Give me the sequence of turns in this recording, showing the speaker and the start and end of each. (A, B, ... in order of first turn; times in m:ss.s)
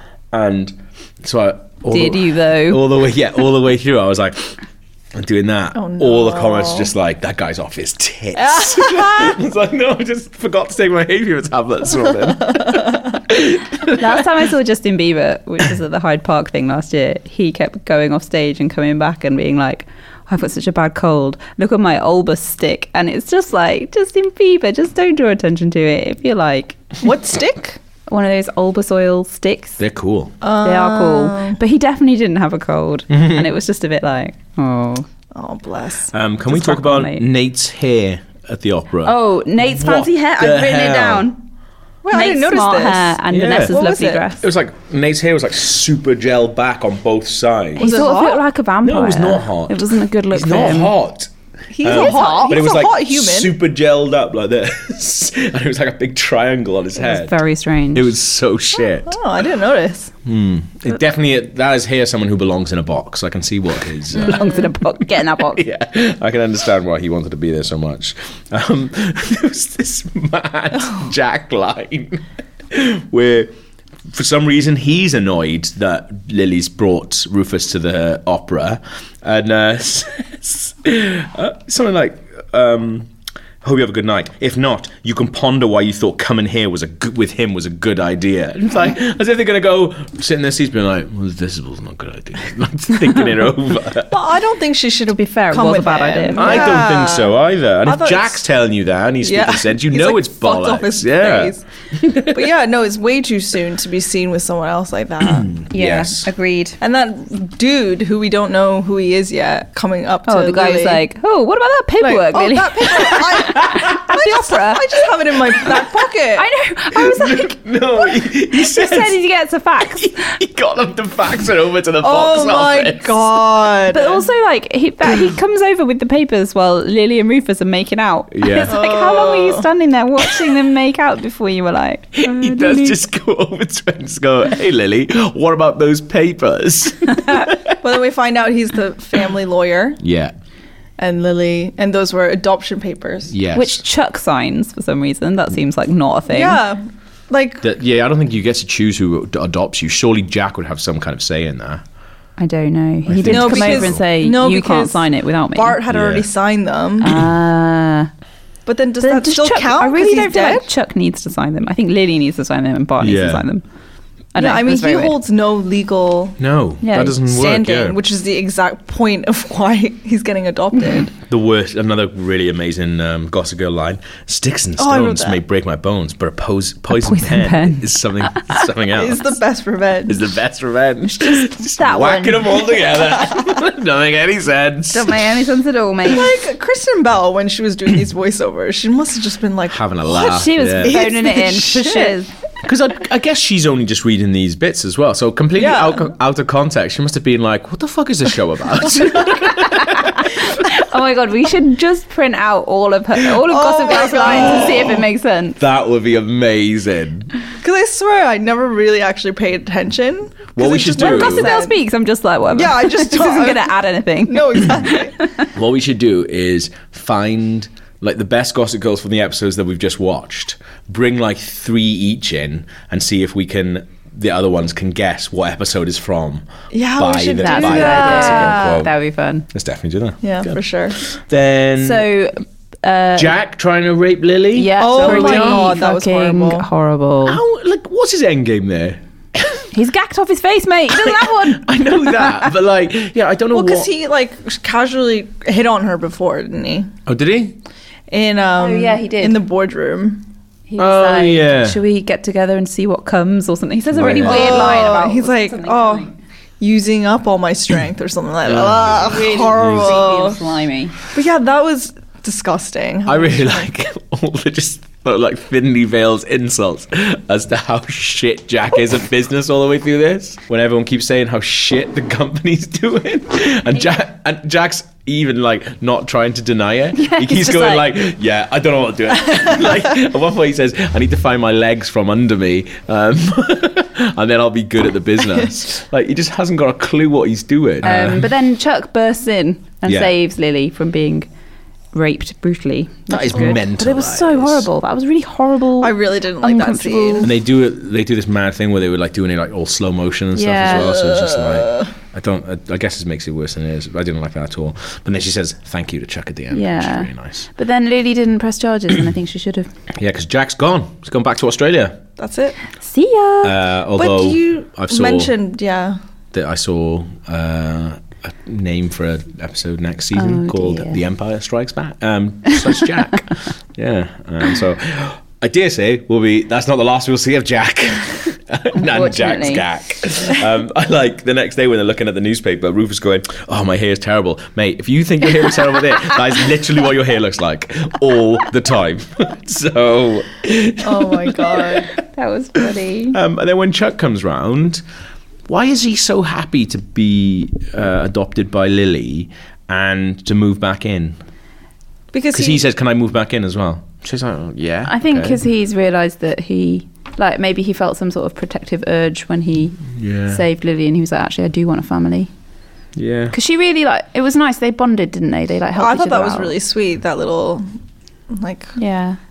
0:00.3-0:04.6 A
0:01.9-0:02.9 B
0:05.1-0:14.3 A
0:05.8-0:06.9 C
0:08.4-0:09.4 C
0:12.6-0:12.9 C
0:13.9-0:26.8 B
0:27.0-0:27.8 C
0:28.1-0:29.8 B
0:29.8-0:30.3 A
0:30.4-0:31.6 C
0:30.6-0:35.1 B
0:33.1-0:33.5 A
0:35.3-0:36.1 C
0:36.1-0:41.3 A
0:36.5-0:37.2 B
0:39.0-0:41.4 B
0:42.0-0:44.3 C
0:42.1-0:44.5 B
0:43.3-0:43.8 A
0:44.4-0:48.0 A
0:47.8-0:51.0 B
0:47.8-0:48.4 C
0:48.8-0:51.3 A
0:51.7-0:53.5 C
0:51.8-0:57.4 A
0:51.9-0:52.7 B
0:57.0-0:58.1 B
0:57.9-0:59.2 A
0:58.8-1:00.1 C
1:00.2-1:13.5 A
1:04.1-1:04.7 C
1:04.1-1:05.6 B
1:14.1-1:23.1 A
1:23.6-1:34.2 A
1:34.1-1:38.4 C
1:35.1-1:36.8 B
1:36.4-1:42.4 A
1:39.2-1:45.6 C
1:45.4-1:46.3 A
1:45.7-1:46.8 B
1:46.8-1:51.0 C
1:50.3-1:55.0 B
1:52.0-1:56.5 C
1:56.4-2:00.4 B
1:56.9-1:59.2 A
1:59.9-2:03.4 A
2:02.0-2:04.3 C
2:03.9-2:13.0 B
2:08.3-2:08.8 A
2:08.7-2:09.6 C
2:12.1-2:17.8 A
2:17.8-2:20.0 C
2:20.0-2:20.4 A
2:21.0-2:23.3 C
2:23.3-2:23.8 A
2:23.5-2:26.6 B
2:26.3-2:27.7 C
2:27.6-2:31.8 A
2:32.4-2:35.8 B
2:33.1-2:34.0 A
2:33.2-2:37.2 C
2:35.9-2:36.3 A
2:37.0-2:38.1 B
2:38.7-2:40.7 C
2:39.0-2:43.6 B
2:43.0-2:43.4 A
2:44.3-2:45.2 B
2:44.4-2:46.4 C
2:46.4-2:48.0 A
2:46.8-2:47.2 B
2:47.2-2:51.2 C
2:51.2-2:59.4 A
2:54.8-2:55.4 C
2:56.9-2:57.9 B
2:58.9-3:00.4 C
3:00.1-3:05.3 A
3:01.2-3:02.8 B
3:02.9-3:03.5 C
3:04.9-3:06.3 B
3:06.1-3:12.2 C
3:09.7-3:11.0 A
3:10.1-3:12.3 B
3:12.6-3:20.7 A
3:15.6-3:16.1 C
3:19.5-3:25.6 B
3:23.5-3:25.0 C
3:24.2-3:25.0 A
3:25.6-3:27.3 A
3:27.6-3:31.8 C
3:30.6-3:31.5 A
3:31.0-3:35.5 B
3:32.5-3:35.2 C
3:35.5-3:48.9 A
3:46.7-3:48.8 C
3:47.4-3:49.5 B
3:49.5-3:52.1 A
3:50.2-3:51.0 C
3:51.8-3:53.3 B
3:53.2-3:55.7 A
3:54.6-3:57.4 B
3:54.8-3:56.7 C
3:57.3-3:59.7 A
3:59.7-4:02.5 B
4:00.9-4:03.9 A
4:03.5-4:06.9 C
4:07.1-4:07.6 A
4:08.1-4:10.2 C
4:08.6-4:09.4 B
4:10.7-4:16.1 B
4:10.8-4:11.8 A
4:13.9-4:15.0 A
4:14.0-4:16.1 C
4:16.6-4:20.4 C
4:18.4-4:20.0 A
4:18.9-4:21.0 B
4:21.1-4:23.7 C
4:23.1-4:48.3 A
4:37.0-4:37.9 B
4:47.8-4:51.3 B
4:49.9-4:50.1 A
4:51.9-4:57.3 B
4:53.1-4:54.7 A
4:55.8-4:57.3 C
4:57.2-5:07.5 A
5:00.3-5:00.9 B
5:00.8-5:01.9 C
5:06.5-5:09.7 B
5:10.0-5:12.0 A
5:12.2-5:12.6 C
5:12.8-5:13.5 B
5:13.4-5:15.3 A
5:14.0-5:16.0 C
5:16.3-5:41.9 A
5:20.2-5:21.0 B
5:28.8-5:29.7 B
5:40.8-5:41.9 C
5:42.1-5:43.2 B
5:43.1-5:44.8 A
5:45.5-5:51.2 A
5:52.1-5:52.6 C
5:52.3-5:55.4 A
5:54.9-6:02.3 B
5:59.9-6:00.4 A
6:03.0-6:03.4 A
6:03.3-6:06.6 B
6:05.8-6:07.6 C
6:08.3-6:08.8 C
6:08.8-6:09.2 B